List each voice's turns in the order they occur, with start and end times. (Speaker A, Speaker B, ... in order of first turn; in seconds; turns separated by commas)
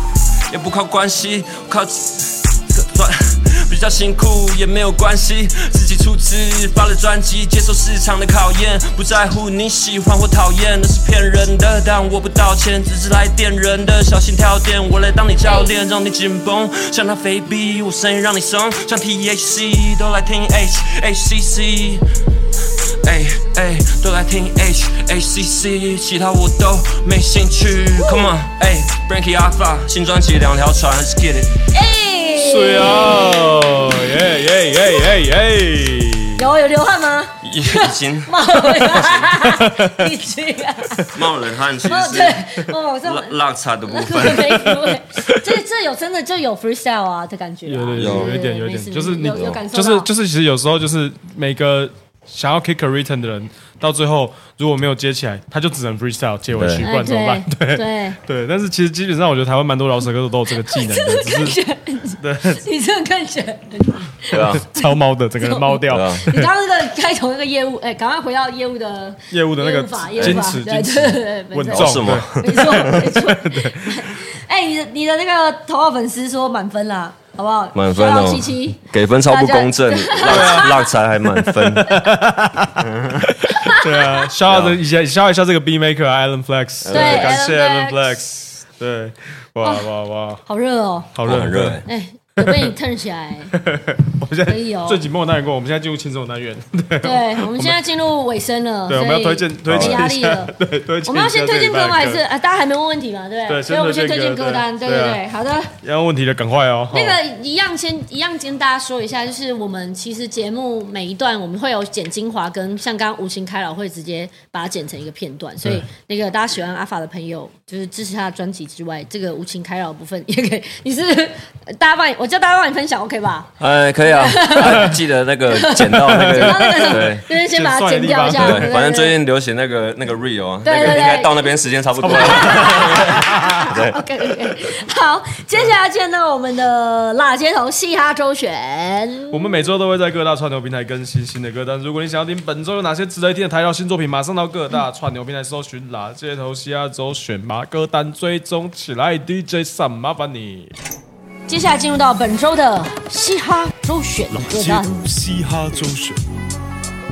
Speaker A: 0.5-22.1, Speaker A: 23.0-31.6, Speaker B: 28.0-28.3, Speaker B: 31.7-33.7, Speaker C: 32.4-36.5, Speaker B: 36.4-41.1, Speaker A: 37.4-39.3, Speaker C: 39.4-40.1, Speaker A: 41.1-44.7, Speaker B: 41.8-43.4, Speaker B: 43.9-50.1, Speaker C: 47.6-61.6, Speaker A: 48.0-48.4, Speaker A: 49.3-49.6, Speaker A: 56.5-56.9, Speaker B: 56.8-58.2, Speaker B: 60.6-64.9, Speaker C: 62.2-62.6, Speaker A: 64.3-64.6, Speaker C: 64.3-66.4, Speaker B: 65.4-80.9, Speaker A: 65.9-66.4, Speaker C: 69.3-74.1, Speaker A: 70.2-70.5, Speaker A: 71.7-73.1, Speaker A: 77.7-82.0, Speaker C: 80.3-80.7, Speaker C: 81.3-90.4, Speaker A: 82.8-83.3, Speaker B: 83.5-84.2, Speaker A: 84.5-84.8, Speaker A: 86.8-87.4, Speaker B: 86.9-88.2, Speaker B: 89.6-89.9, Speaker B: 90.5-91.1, Speaker C: 91.1-91.8, Speaker A: 91.2-91.8, Speaker B: 91.8-93.5, Speaker C: 92.4-92.7, Speaker C: 93.5-97.8, Speaker B: 94.5-95.0, Speaker B: 97.0-100.5, Speaker C: 98.9-102.2, Speaker A: 99.7-100.0, Speaker B: 101.0-105.7, Speaker C: 103.5-105.2, Speaker C: 105.8-107.2, Speaker B: 106.9-125.0, Speaker A: 123.6-127.2, Speaker B: 125.5-129.1, Speaker C: 126.0-128.7, Speaker A: 128.3-134.0, Speaker B: 130.6-139.6, Speaker C: 132.0-133.7, Speaker C: 139.3-150.7, Speaker B: 151.5-155.0